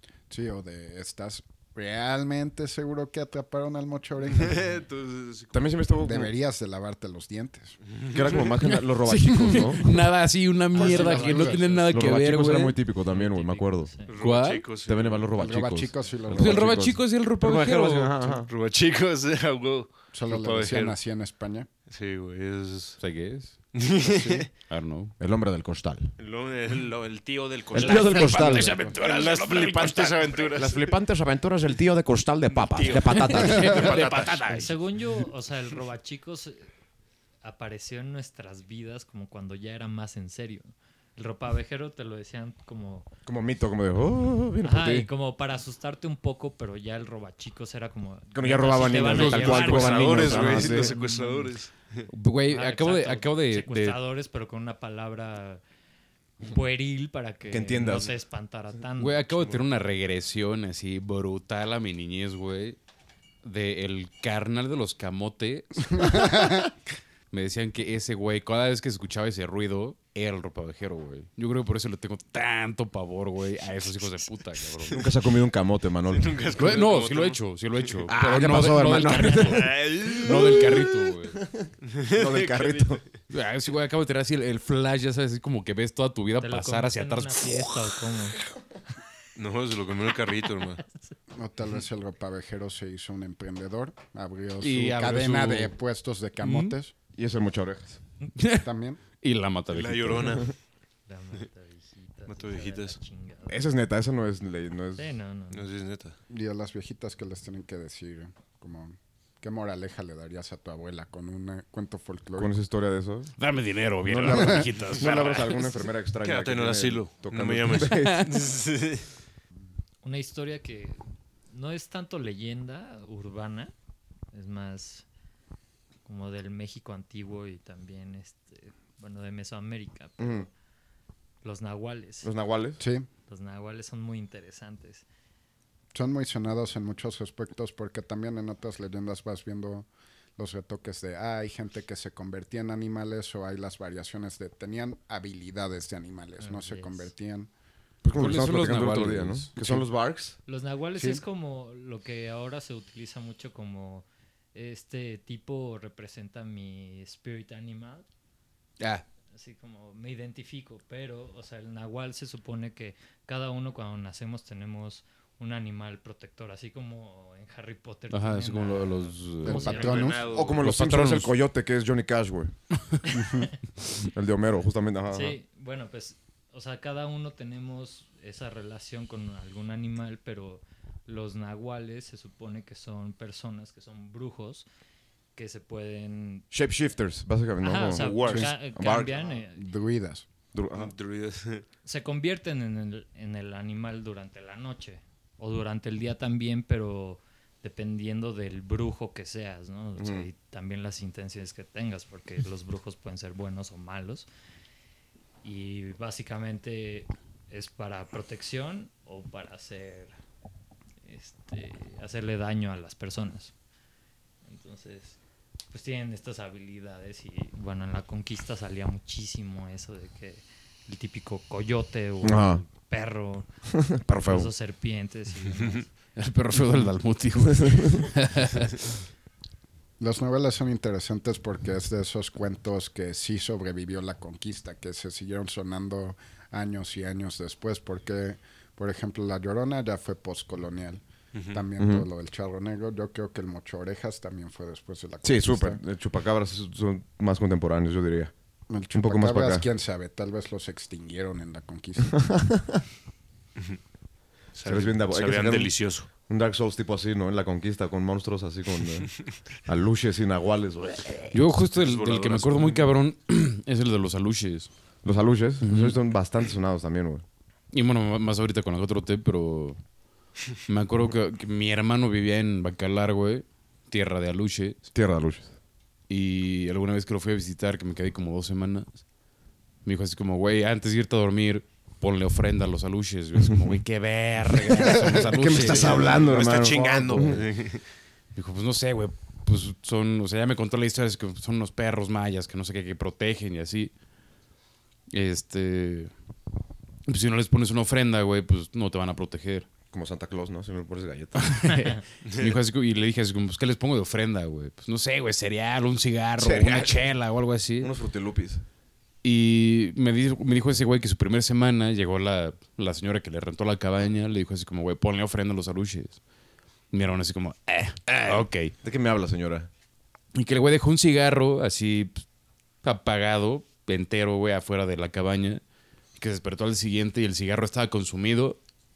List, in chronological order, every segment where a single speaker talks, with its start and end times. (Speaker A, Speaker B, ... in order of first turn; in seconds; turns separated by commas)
Speaker A: 0.3-4.8, Speaker B: 4.3-5.8, Speaker C: 5.5-6.3, Speaker A: 6.0-7.8, Speaker B: 7.9-8.5, Speaker C: 8.1-9.8, Speaker D: 8.6-12.8, Speaker A: 9.4-9.8, Speaker A: 10.7-11.8, Speaker E: 10.8-11.8, Speaker C: 11.9-13.9, Speaker E: 13.1-14.2, Speaker B: 14.0-15.3, Speaker D: 14.2-14.7, Speaker C: 14.8-18.5, Speaker A: 15.3-17.0, Speaker D: 16.3-18.1, Speaker B: 18.2-21.0, Speaker A: 20.1-21.7, Speaker B: 21.9-23.0, Speaker D: 23.0-23.7, Speaker B: 23.7-24.5, Speaker D: 24.6-25.1, Speaker C: 25.2-26.2, Speaker B: 26.2-31.0, Speaker C: 27.7-28.9, Speaker D: 27.8-30.5, Speaker C: 30.5-34.3, Speaker B: 32.5-34.5, Speaker D: 32.9-34.8, Speaker E: 34.5-36.7, Speaker E: 37.4-43.1, Speaker C: 43.2-45.1, Speaker E: 44.6-51.5, Speaker C: 48.3-50.9, Speaker B: 48.8-52.1, Speaker D: 52.1-54.0, Speaker E: 52.5-55.6, Speaker E: 56.4-59.3, Speaker C: 57.5-58.1, Speaker D: 59.0-62.8, Speaker D: 63.4-66.7, Speaker A: 65.9-66.7, Speaker D: 67.3-75.1, Speaker C: 74.9-76.7, Speaker B: 76.1-77.5, Speaker D: 76.5-81.4, Speaker C: 78.1-80.6, Speaker B: 79.3-80.8, Speaker C: 81.5-83.0, Speaker B: 81.8-83.2, Speaker D: 83.3-88.0, Speaker E: 86.4-88.4, Speaker B: 89.3-90.8, Speaker E: 90.9-91.1, Speaker A: 91.3-96.9, Speaker D: 94.6-95.7, Speaker D: 96.4-96.8, Speaker C: 97.1-98.0, Speaker D: 98.3-98.7, Speaker A: 98.5-99.0, Speaker D: 99.2-100.5, Speaker B: 99.7-100.5, Speaker E: 101.0-103.6, Speaker B: 102.3-103.0, Speaker C: 103.5-105.1, Speaker E: 105.0-105.7, Speaker B: 105.5-106.2, Speaker A: 106.3-112.5, Speaker C: 112.4-113.3, Speaker D: 113.4-115.6, Speaker C: 114.0-118.2, Speaker A: 114.2-114.7, Speaker B: 115.0-115.6, Speaker B: 116.2-119.1, Speaker D: 117.7-118.4, Speaker E: 120.0-123.7, Speaker E: 124.3-125.0, Speaker E: 126.0-130.5, Speaker C: 130.2-130.5, Speaker E: 131.4-132.3, Speaker C: 132.2-132.8, Speaker A: 132.8-133.1, Speaker E: 133.3-135.0, Speaker A: 135.9-147.5, Speaker E: 146.4-147.1, Speaker C: 148.0-150.4, Speaker D: 148.1-149.8, Speaker E: 150.4-158.1, Speaker D: 158.8-159.0, Speaker E: 159.3-170.5, Speaker D: 168.1-169.7, Speaker A: 169.4-170.2, Speaker B: 169.7-170.6, Speaker C: 170.1-172.6, Speaker D: 170.6-171.3, Speaker E: 173.1-173.5, Speaker A: 173.1-173.5, Speaker C: 174.0-175.4, Speaker E: 175.1-184.7, Speaker E: 185.3-186.5, Speaker C: 186.5-189.3, Speaker E: 187.6-189.8, Speaker B: 187.9-188.5, Speaker A: 188.3-190.3, Speaker C: 190.5-190.9, Speaker B: 190.7-191.6, Speaker E: 191.8-204.3, Speaker C: 200.0-200.3, Speaker E: 205.4-210.1, Speaker E: 211.0-213.5, Speaker E: 214.4-215.2, Speaker E: 215.7-223.5, Speaker C: 222.2-222.6, Speaker C: 223.7-224.5, Speaker E: 224.1-225.9, Speaker B: 225.5-225.8, Speaker D: 226.2-228.9, Speaker C: 227.5-227.8, Speaker A: 230.0-245.8, Speaker C: 241.8-242.1, Speaker C: 245.2-248.3, Speaker A: 248.7-252.2, Speaker C: 248.9-249.6, Speaker C: 252.1-252.6, Speaker B: 254.5-256.1, Speaker C: 254.6-261.4, Speaker D: 261.3-264.7, Speaker B: 261.7-262.8, Speaker C: 265.0-267.2, Speaker D: 265.6-266.0, Speaker D: 267.7-269.8, Speaker D: 270.6-274.8, Speaker C: 274.9-275.5, Speaker D: 276.1-279.0, Speaker D: 279.8-286.2, Speaker C: 283.5-283.8, Speaker C: 284.8-287.4, Speaker B: 285.6-287.8, Speaker D: 288.4-293.9, Speaker D: 295.1-296.1, Speaker D: 297.1-299.7, Speaker C: 299.9-301.8, Speaker D: 301.4-307.9, Speaker B: 302.2-302.6, Speaker C: 306.4-307.0, Speaker C: 307.8-308.6, Speaker D: 309.2-316.2, Speaker D: 316.9-318.7, Speaker C: 318.2-319.7, Speaker D: 320.3-322.2, Speaker D: 322.8-325.6, Speaker D: 326.2-328.6